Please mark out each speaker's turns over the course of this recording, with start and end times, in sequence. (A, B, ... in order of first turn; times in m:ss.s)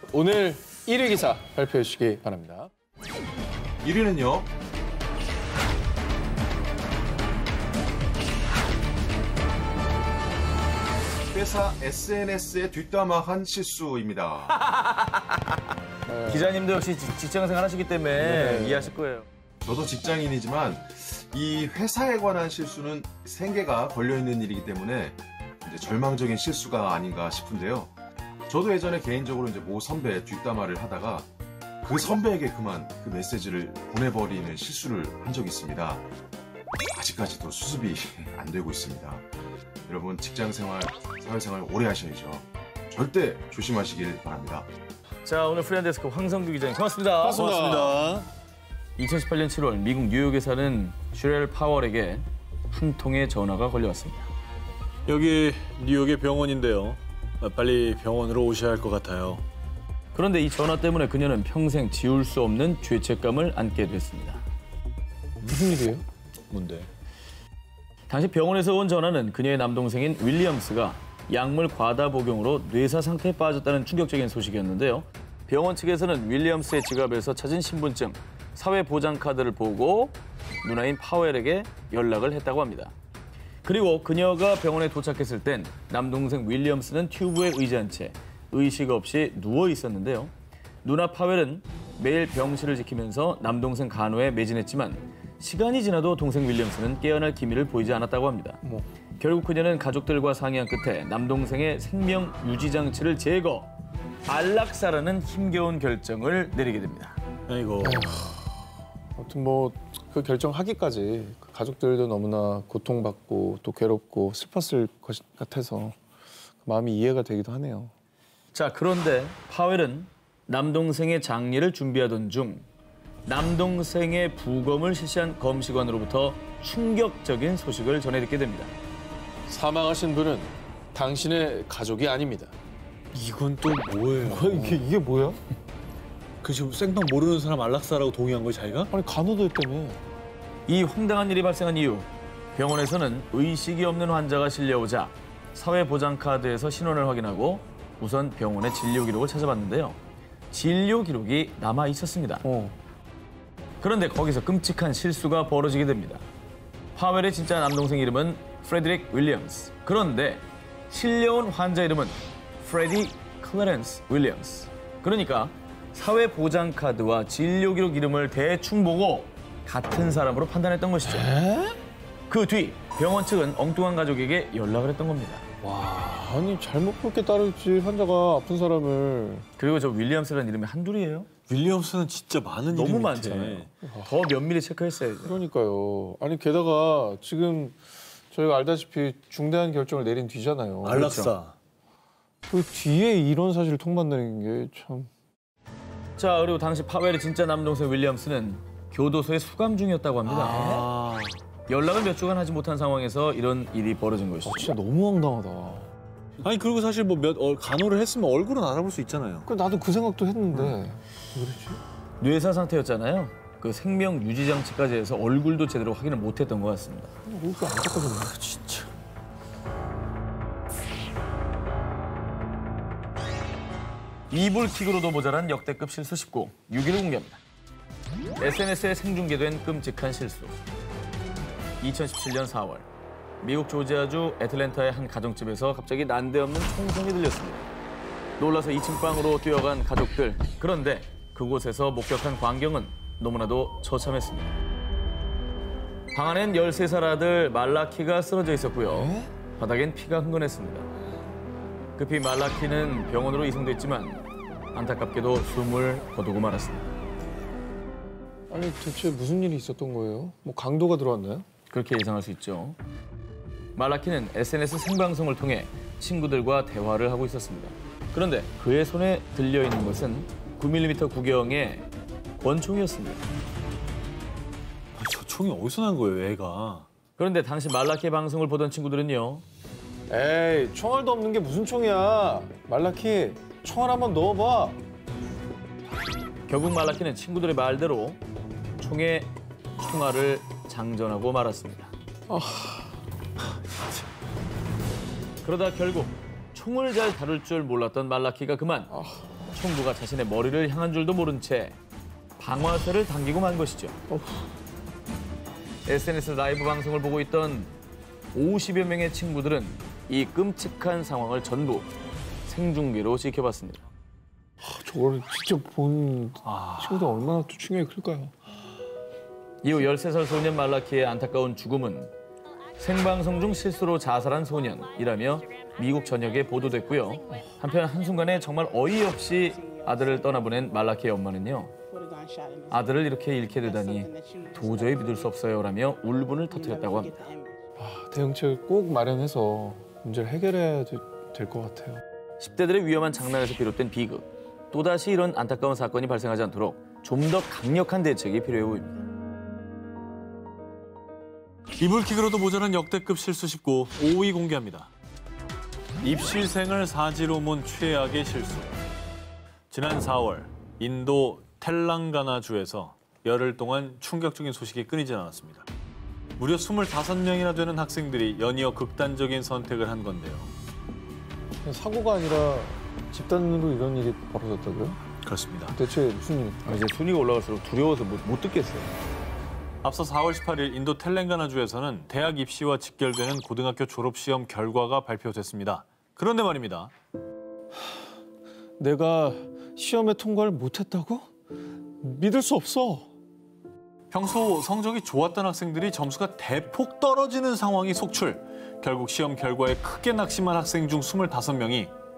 0:00.1-0:02.7 A
0:03.8-0:04.5 B
0:11.3-0:14.6 B
0:14.5-0:15.5 C
0:16.1-0:16.5 A
0:16.2-0:19.3 C
0:18.2-0:18.9 A
0:19.6-0:27.9 B
0:28.5-0:31.3 B
0:31.8-0:36.0 B
0:36.9-0:39.2 B
0:39.8-0:44.7 B
0:45.2-0:47.5 C
0:47.2-0:48.0 A
0:47.4-0:48.3 D
0:49.0-0:54.3 C
0:55.1-0:59.4 D
1:00.1-1:04.4 C
1:05.4-1:06.0 A
1:06.5-1:06.9 D
1:08.1-1:22.9 C
1:23.6-1:30.3 C
1:30.8-1:38.6 C
1:39.2-1:43.7 C
1:44.3-1:47.2 C
1:47.5-1:48.1 D
1:47.8-1:48.5 A
1:49.2-1:56.0 A
1:56.6-1:57.9 A
1:58.5-2:02.6 C
2:03.3-2:08.7 C
2:09.5-2:12.5 A
2:13.1-2:14.8 D
2:14.2-2:15.4 A
2:16.4-2:18.9 D
2:18.9-2:20.0 A
2:20.7-2:30.0 C
2:30.5-2:32.5 C
2:32.4-2:32.7 A
2:33.8-2:36.2 C
2:37.0-2:51.3 C
2:51.0-2:51.8 A
2:52.3-2:55.5 C
2:55.6-2:56.3 D
2:56.1-2:59.5 A
2:59.6-3:01.3 C
3:01.5-3:03.7 D
3:02.7-3:05.4 C
3:03.8-3:04.2 A
3:05.2-3:07.8 A
3:08.3-3:11.1 A
3:10.8-3:11.6 D
3:10.9-3:11.3 C
3:12.5-3:15.1 A
3:16.2-3:20.9 C
3:20.2-3:21.4 D
3:21.7-3:24.7 C
3:24.4-3:25.9 A
3:26.4-3:29.5 D
3:29.5-3:31.8 A
3:32.2-3:37.1 C
3:37.3-3:38.4 A
3:38.3-3:38.9 D
3:44.3-3:47.4 C
3:48.4-3:50.6 C
3:51.8-3:52.9 C
3:53.4-3:57.7 C
3:58.4-4:04.5 C
4:06.1-4:10.9 C
4:08.9-4:09.3 A
4:12.0-4:14.2 C
4:14.7-4:16.9 C
4:18.5-4:21.5 A
4:21.7-4:22.8 C
4:23.8-4:31.9 C
4:32.4-4:33.2 C
4:35.0-4:36.9 D
4:37.2-4:39.4 C
4:40.1-4:44.8 A
4:46.5-4:48.2 C
4:48.8-4:51.9 C
4:52.3-4:53.0 A
4:55.4-4:58.9 C
4:58.9-4:59.3 A
4:59.5-5:01.8 C
5:02.4-5:04.0 C
5:04.1-5:04.5 A
5:05.9-5:07.7 C
5:08.3-5:11.9 C
5:12.5-5:13.8 C
5:14.6-5:18.3 A
5:16.4-5:17.2 D
5:19.6-5:22.1 C
5:22.8-5:31.7 C
5:32.7-5:37.3 C
5:37.8-5:42.0 A
5:42.4-5:49.0 C
5:51.8-5:54.9 D
5:56.0-5:58.8 D
5:59.7-6:05.7 D
6:06.4-6:10.5 D
6:11.6-6:15.0 A
6:15.2-6:15.8 D
6:15.7-6:16.8 A
6:16.6-6:18.9 C
6:19.8-6:26.9 D
6:28.8-6:31.3 A
6:32.0-6:33.1 A
6:34.1-6:41.9 D